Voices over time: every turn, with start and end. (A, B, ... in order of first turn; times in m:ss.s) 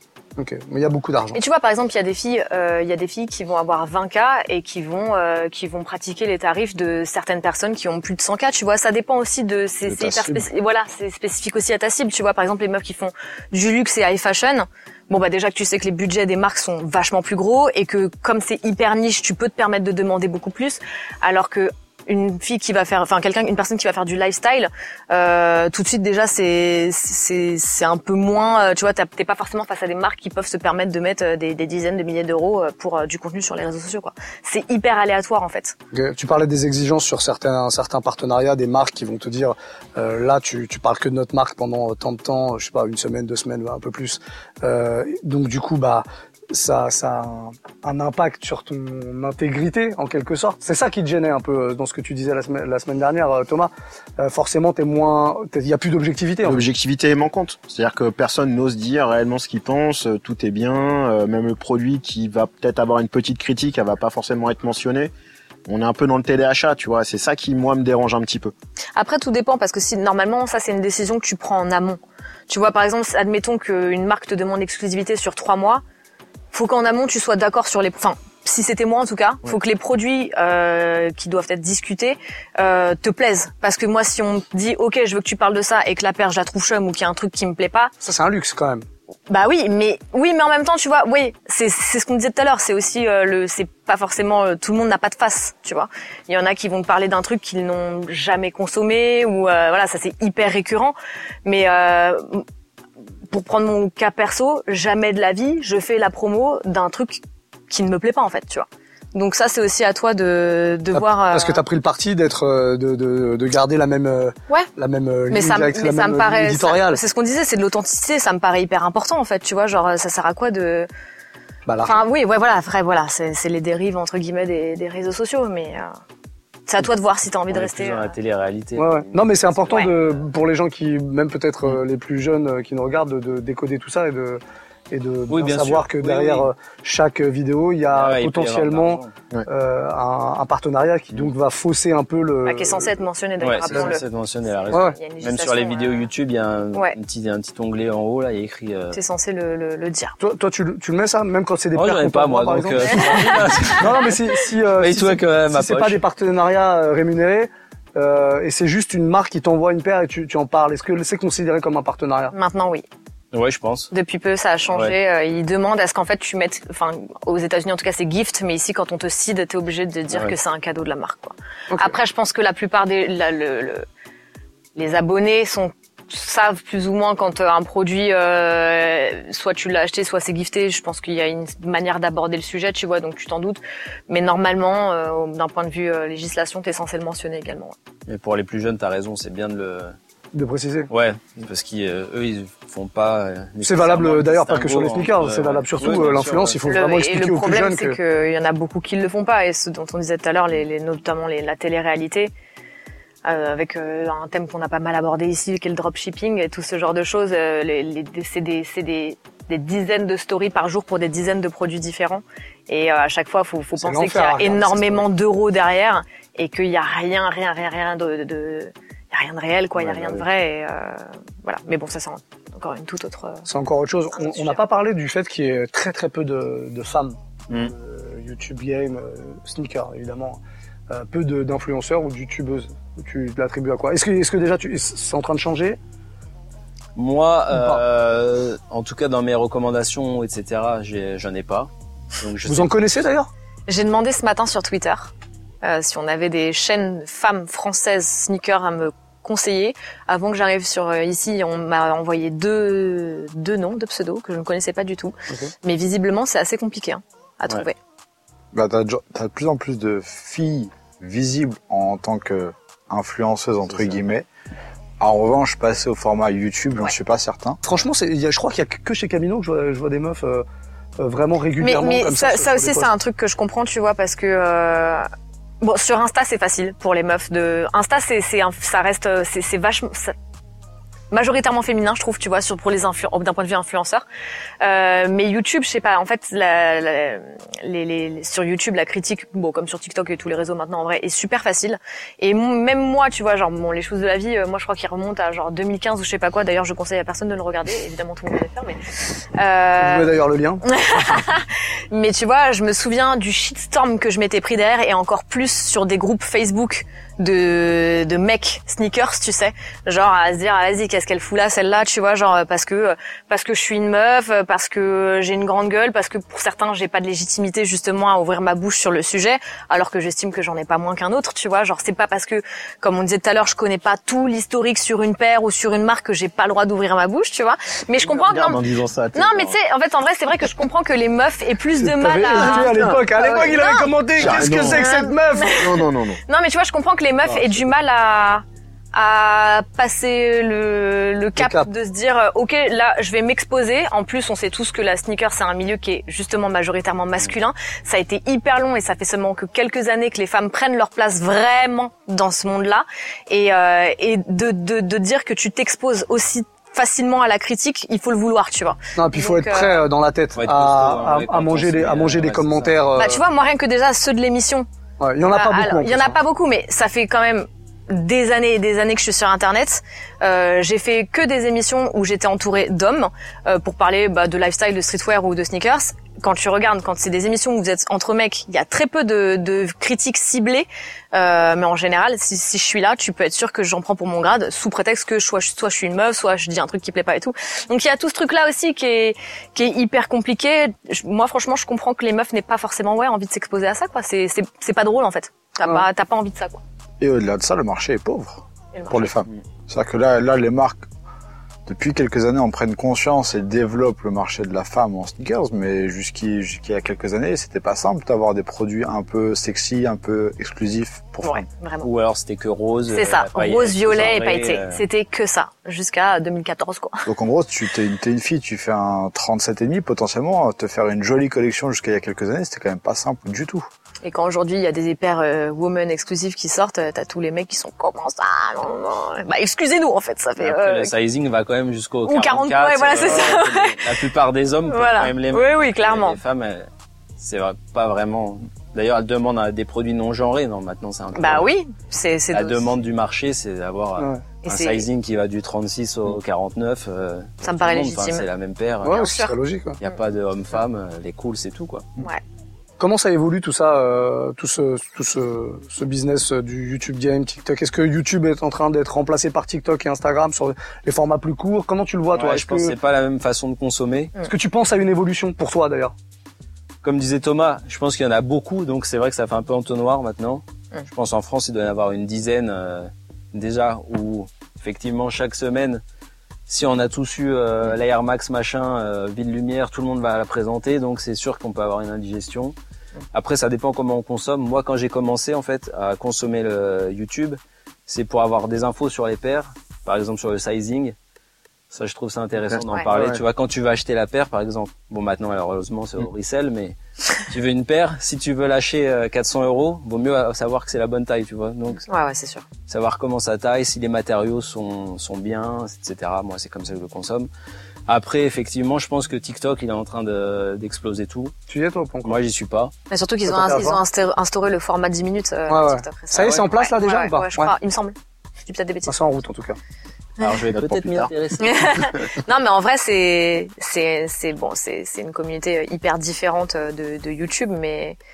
0:00.4-0:01.4 A
0:01.3-0:35.7 B
0:09.9-0:10.4 C
0:35.9-0:56.6 A
0:56.4-1:05.1 D
1:05.7-1:08.5 D
1:08.9-1:15.8 B
1:16.5-1:27.9 B
1:28.0-1:28.8 A
1:29.3-1:42.4 B
1:43.3-1:51.6 B
1:50.9-1:57.0 A
1:55.3-2:00.9 B
2:01.7-2:02.0 A
2:01.8-2:05.9 B
2:06.7-2:08.1 B
2:07.5-2:10.2 E
2:08.8-2:23.0 A
2:15.3-2:16.5 E
2:17.9-2:19.1 E
2:22.4-2:26.1 B
2:23.4-2:29.0 E
2:24.7-2:25.0 A
2:28.9-2:30.2 B
2:30.2-2:42.3 A
2:31.7-2:34.1 E
2:33.0-2:33.9 B
2:34.8-2:36.0 E
2:42.3-2:42.8 B
2:43.3-2:43.9 E
2:43.9-2:53.8 B
2:54.8-3:07.7 B
3:08.1-3:10.0 E
3:10.3-3:10.9 A
3:10.9-3:16.7 E
3:13.6-3:18.0 A
3:16.7-3:22.3 B
3:23.2-3:43.4 B
3:33.8-3:35.1 A
3:39.9-3:40.2 E
3:43.4-3:55.8 A
3:44.1-3:44.6 B
3:57.0-4:03.0 E
3:57.5-3:57.8 A
4:02.4-4:03.3 A
4:03.7-4:17.8 B
4:18.5-4:24.3 C
4:25.0-4:27.6 C
4:27.6-4:30.4 A
4:31.0-4:32.9 A
4:31.6-4:35.1 B
4:35.6-4:40.1 B
4:41.1-4:44.0 B
4:44.6-4:58.8 B
4:59.4-5:00.1 B
4:59.8-5:00.6 A
5:00.6-5:35.8 B
5:28.0-5:29.6 D
5:31.8-5:35.6 A
5:32.4-5:33.0 D
5:34.2-5:34.9 D
5:35.6-5:36.2 D
5:36.3-5:59.8 B
5:41.4-5:41.7 A
5:59.0-6:03.2 A
6:00.4-6:02.8 E
6:03.0-6:04.7 B
6:05.0-6:06.2 A
6:05.2-6:36.6 B
6:37.0-6:40.8 C
6:38.7-6:39.1 B
6:41.6-6:51.4 C
6:51.2-6:51.9 B
6:51.8-6:54.8 E
6:52.9-6:57.0 B
6:57.1-7:03.7 C
7:04.0-7:10.9 B
7:10.4-7:16.7 E
7:12.0-7:13.9 B
7:14.6-7:16.2 B
7:17.2-7:21.6 E
7:21.1-7:22.7 B
7:22.3-7:29.1 E
7:24.0-7:24.2 A
7:24.4-7:24.8 B
7:27.4-7:28.2 B
7:28.8-7:29.8 A
7:28.9-7:29.9 B
7:29.8-7:31.9 E
7:32.0-7:32.2 B
7:32.8-7:42.7 A
7:42.1-7:44.1 E
7:44.2-7:45.9 A
7:46.8-7:55.8 E
7:56.5-8:02.5 E
8:03.1-8:11.0 E
8:11.7-8:21.8 E
8:12.5-8:13.2 D
8:21.9-8:22.4 B
8:22.7-8:27.3 E
8:27.9-8:31.3 E
8:31.5-8:32.2 A
8:32.0-8:32.7 E
8:32.9-8:39.0 B
8:33.2-8:33.8 A
8:35.5-8:37.5 A
8:36.1-8:36.4 E
8:38.9-8:39.6 A
8:40.2-8:42.1 E
8:40.5-8:41.1 D
8:41.4-8:48.0 B